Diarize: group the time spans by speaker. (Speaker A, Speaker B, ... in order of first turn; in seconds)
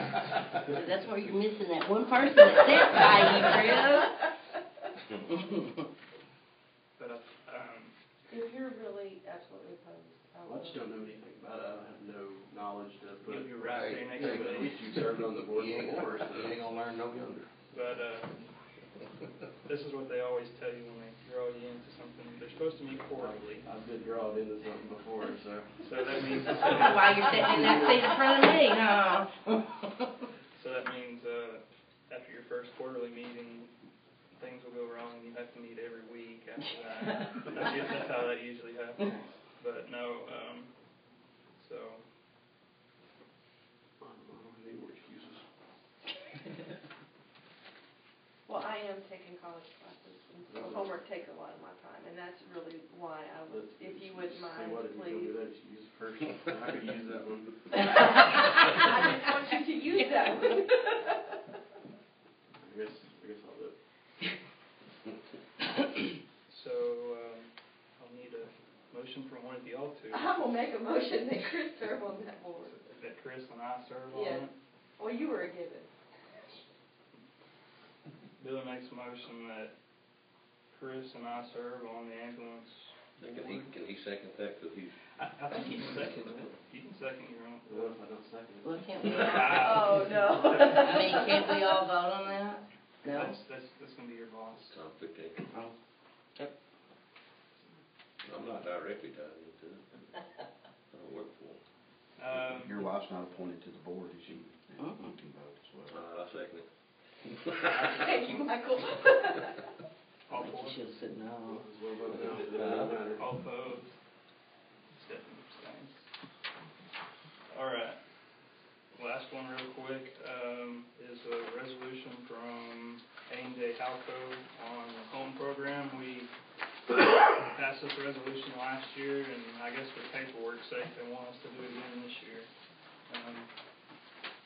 Speaker A: 0.7-4.1, 5.4-5.7, 26.8-28.4, 88.7-89.2, 91.2-93.3, 110.6-111.4
Speaker B: 7.0-7.9, 13.2-14.7, 17.7-18.4, 19.6-23.6, 25.8-27.6, 30.5-33.7, 34.4-40.7, 41.5-42.0, 66.5-70.4, 72.6-74.5, 78.4-79.7, 80.7-83.7, 85.2-88.0, 89.0-90.8, 93.0-94.8, 102.2-102.8, 107.7-108.6, 110.3-110.8, 113.1-114.0, 114.9-116.1, 117.5-118.0, 118.9-126.3, 127.0-132.5, 133.1-133.5
Speaker C: 8.3-11.0, 48.5-55.3, 57.8-61.4, 70.1-72.7, 74.1-74.5, 75.0-75.9, 89.4-91.7, 107.9-109.6
Speaker D: 10.4-17.5, 23.1-26.7, 44.0-45.4, 50.5-50.9, 53.5-57.9, 62.6-63.8, 87.6-89.8, 111.5-113.2
Speaker E: 13.7-14.6, 15.5-16.6, 26.8-29.3, 83.2-84.9, 88.7-89.0, 90.8-91.8, 94.7-95.7, 98.2-99.8, 100.9-101.6, 105.9-106.7, 107.3-107.8, 110.9-111.6, 112.6-112.9
Speaker F: 102.5-106.0